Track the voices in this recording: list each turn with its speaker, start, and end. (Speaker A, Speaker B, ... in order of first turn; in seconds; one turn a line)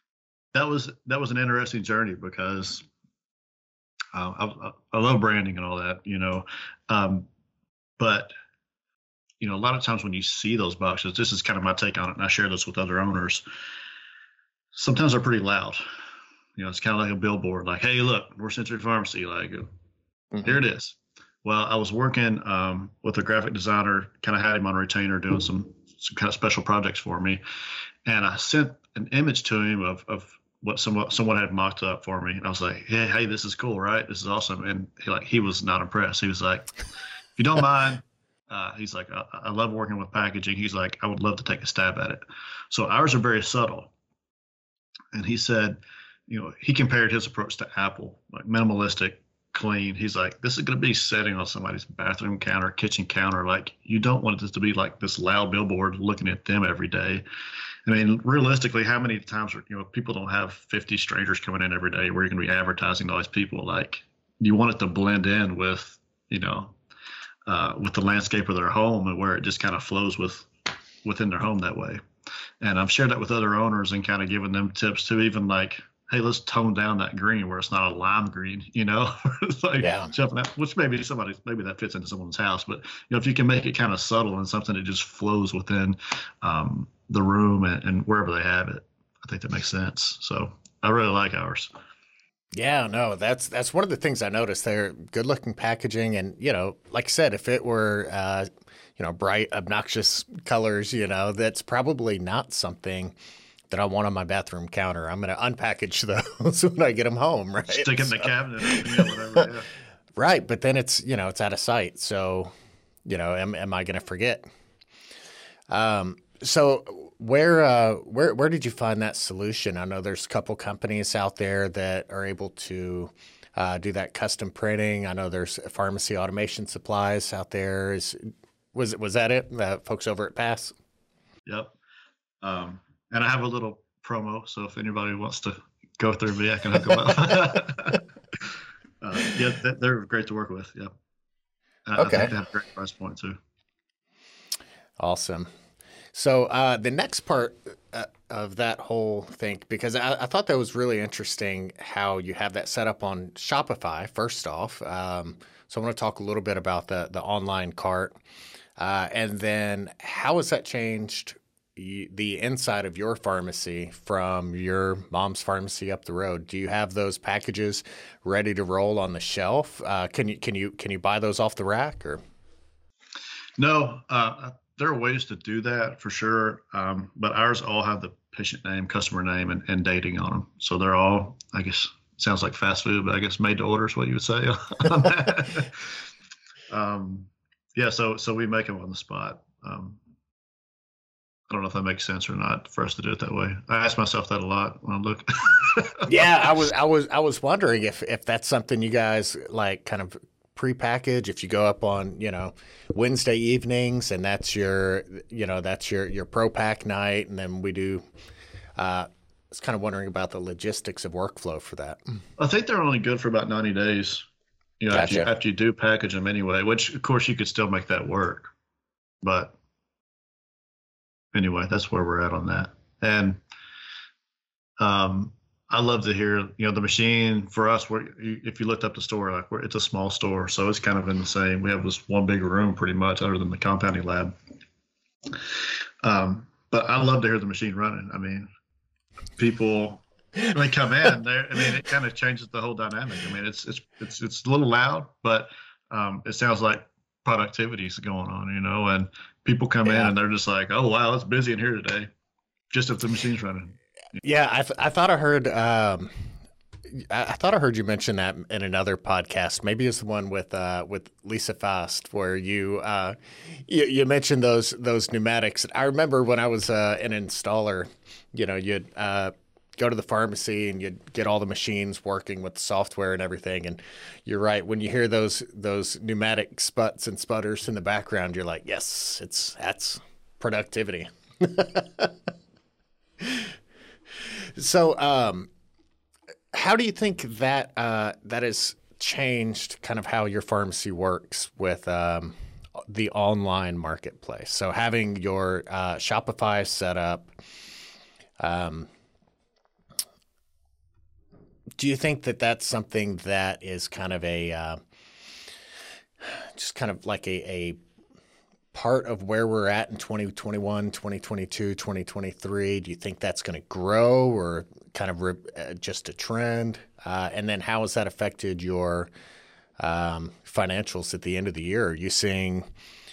Speaker A: 0.5-2.9
Speaker A: 4.1-7.3
Speaker A: 8.0-8.3
Speaker A: 9.4-13.4
Speaker A: 14.7-15.8
Speaker A: 16.6-19.7
Speaker A: 20.4-27.4
Speaker A: 28.0-36.7
Speaker A: 37.4-43.9
Speaker A: 45.1-57.2
Speaker A: 57.9-66.8
Speaker A: 67.5-70.5
Speaker A: 71.0-72.0
Speaker A: 72.6-91.7
Speaker B: 79.8-80.1
Speaker B: 92.5-103.1
Speaker B: 103.7-109.4
Speaker A: 107.7-109.7
Speaker B: 110.2-112.5
Speaker B: 113.0-114.5
Speaker B: 115.7-130.7
Speaker A: 131.5-131.7
Speaker A: 132.4-140.9
Speaker A: 141.9-143.4
Speaker B: 142.0-142.3
Speaker B: 145.0-145.5
Speaker B: 146.1-158.2
Speaker B: 158.8-172.2
Speaker A: 173.6-186.0
Speaker A: 186.7-190.0
Speaker A: 191.5-196.1
Speaker B: 196.1-208.0
Speaker B: 208.8-212.0
Speaker A: 212.4-214.2
Speaker A: 214.8-218.5
Speaker B: 214.9-215.3
Speaker A: 219.2-219.5
Speaker A: 221.3-223.4
Speaker A: 224.8-234.3
Speaker A: 235.2-238.5
Speaker A: 239.4-252.1
Speaker B: 249.8-250.1
Speaker A: 252.7-253.8
Speaker B: 254.2-256.2
Speaker B: 256.9-282.1
Speaker B: 283.2-283.5
Speaker B: 284.2-285.5
Speaker B: 286.5-297.3
Speaker B: 298.4-298.9
Speaker B: 301.8-304.8
Speaker B: 306.2-307.8
Speaker B: 308.7-319.1
Speaker B: 319.8-322.7